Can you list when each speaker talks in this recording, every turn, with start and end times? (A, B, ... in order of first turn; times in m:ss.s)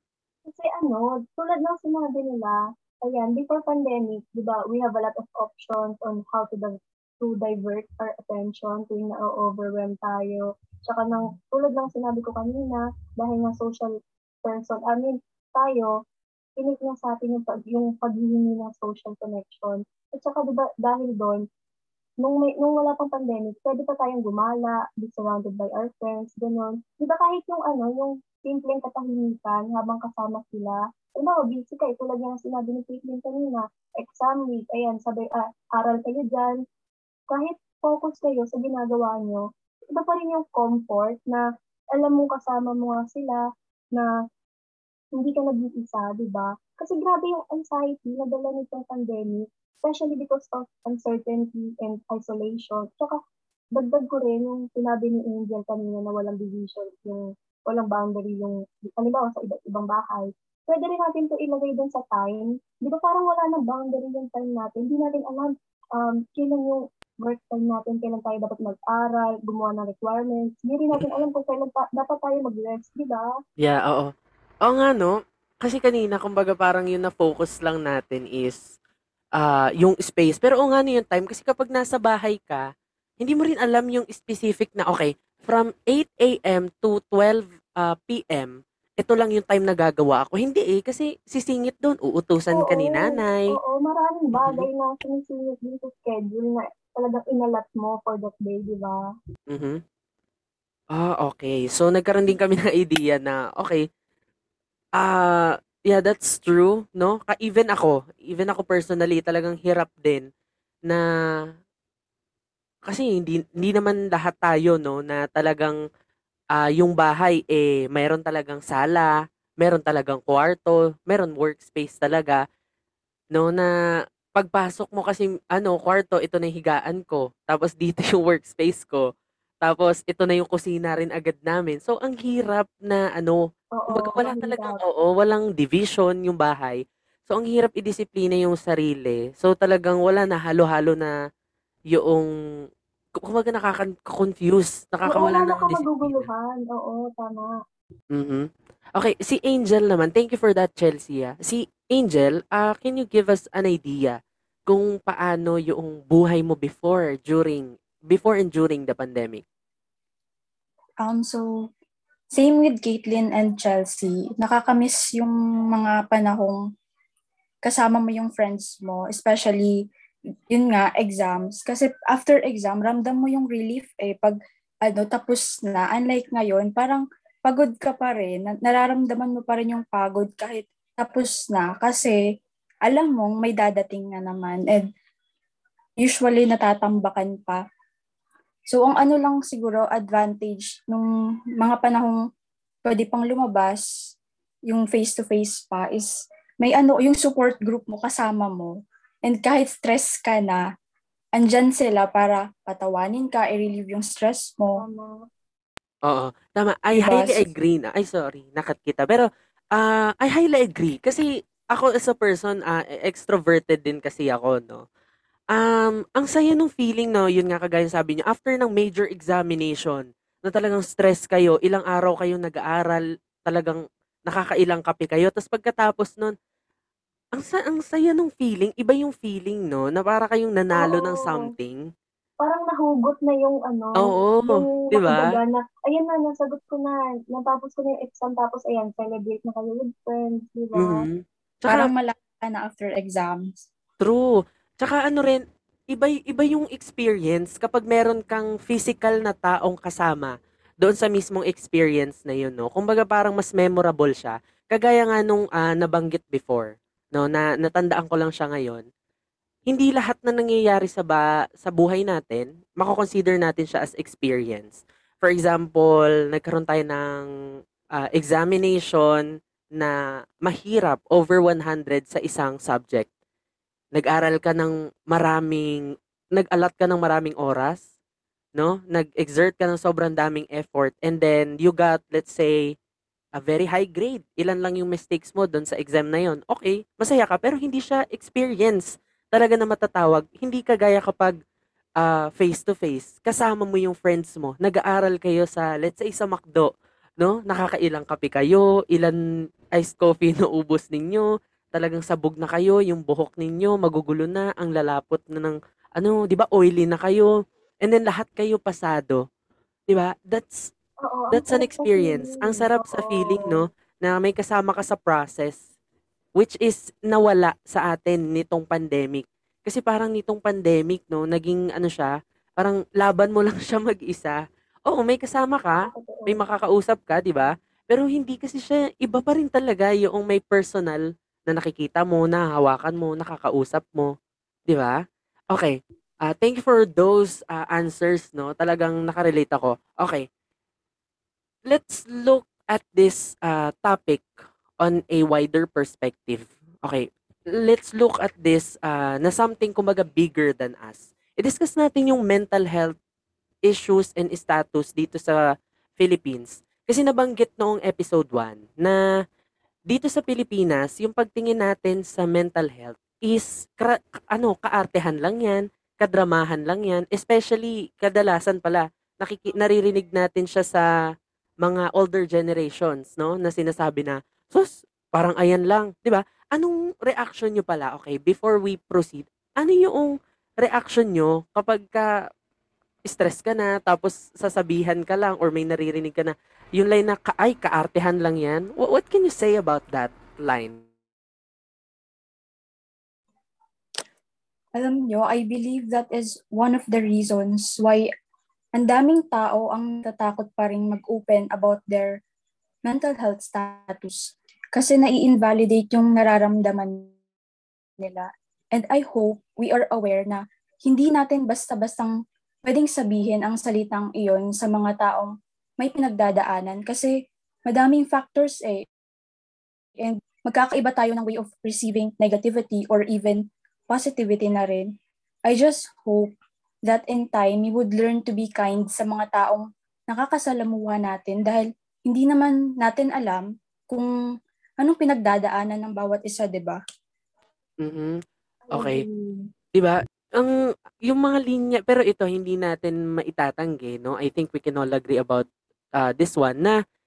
0:00.5-0:15.9 A
0:16.6-0:21.4 A
0:22.2-0:36.6 A
0:37.3-0:41.4 A
0:42.0-0:43.4 A
0:45.2-0:53.2 A
0:53.8-1:13.3 A
1:11.0-1:11.3 B
1:13.6-1:14.1 B
1:14.6-1:18.6 B
1:19.4-1:22.6 B
1:23.2-1:33.5 B
1:32.5-1:39.1 A
1:34.4-1:34.7 B
1:39.5-1:39.8 B
1:40.9-1:43.8 B
1:45.0-1:50.3 B
1:52.9-1:55.8 B
1:56.5-2:02.4 B
2:03.3-2:03.7 B
2:04.3-2:09.1 B
2:09.6-2:21.1 B
2:13.8-2:14.8 A
2:21.9-2:22.3 B
2:23.2-2:26.3 B
2:25.1-2:27.5 A
2:28.1-2:34.2 B
2:34.7-2:39.4 B
2:41.0-2:41.4 C
2:42.3-2:46.6 C
2:47.6-2:49.8 C
2:50.5-3:02.2 C
3:02.9-3:04.9 C
3:06.0-3:07.6 C
3:08.7-3:11.1 C
3:11.6-3:12.2 C
3:12.8-3:13.8 C
3:14.7-3:16.1 C
3:16.6-3:18.7 C
3:19.3-3:20.6 C
3:21.4-3:24.8 C
3:24.8-3:25.1 A
3:26.1-3:34.8 B
3:26.9-3:27.5 C
3:35.5-3:46.4 B
3:47.4-3:51.8 B
3:50.8-3:51.1 A
3:52.4-4:01.0 A
3:54.0-3:55.3 B
4:00.8-4:01.9 B
4:01.7-4:03.5 C
4:04.0-4:18.8 B
4:19.7-4:27.3 B
4:28.0-4:29.2 B
4:30.4-4:33.1 B
4:34.0-4:35.8 B
4:36.4-4:37.8 B
4:38.6-4:42.8 B
4:43.4-4:51.4 B
4:52.0-4:59.2 B
4:59.8-5:07.3 B
5:07.8-5:09.2 B
5:09.9-5:10.7 B
5:11.0-5:13.6 A
5:11.3-5:15.6 B
5:16.4-5:34.1 B
5:25.8-5:26.4 A
5:34.7-5:35.0 B
5:35.5-5:40.3 B
5:41.7-5:44.3 B
5:44.8-5:47.1 B
5:47.6-5:53.0 B
5:53.7-5:55.4 B
5:56.0-5:59.0 B
5:59.9-6:10.9 B
6:11.6-6:22.1 B
6:23.1-6:30.8 B
6:34.8-6:38.1 C
6:38.8-6:42.2 C
6:42.9-6:47.1 C
6:48.0-6:52.1 C
6:52.7-6:57.1 C
6:57.7-6:58.8 C
7:00.0-7:04.9 C
7:05.5-7:06.3 C
7:06.9-7:14.1 C
7:14.8-7:16.8 C
7:17.8-7:18.2 B
7:18.7-7:19.5 A
7:18.7-7:19.0 B
7:19.8-7:20.5 B
7:21.1-7:25.5 B
7:26.0-7:26.8 B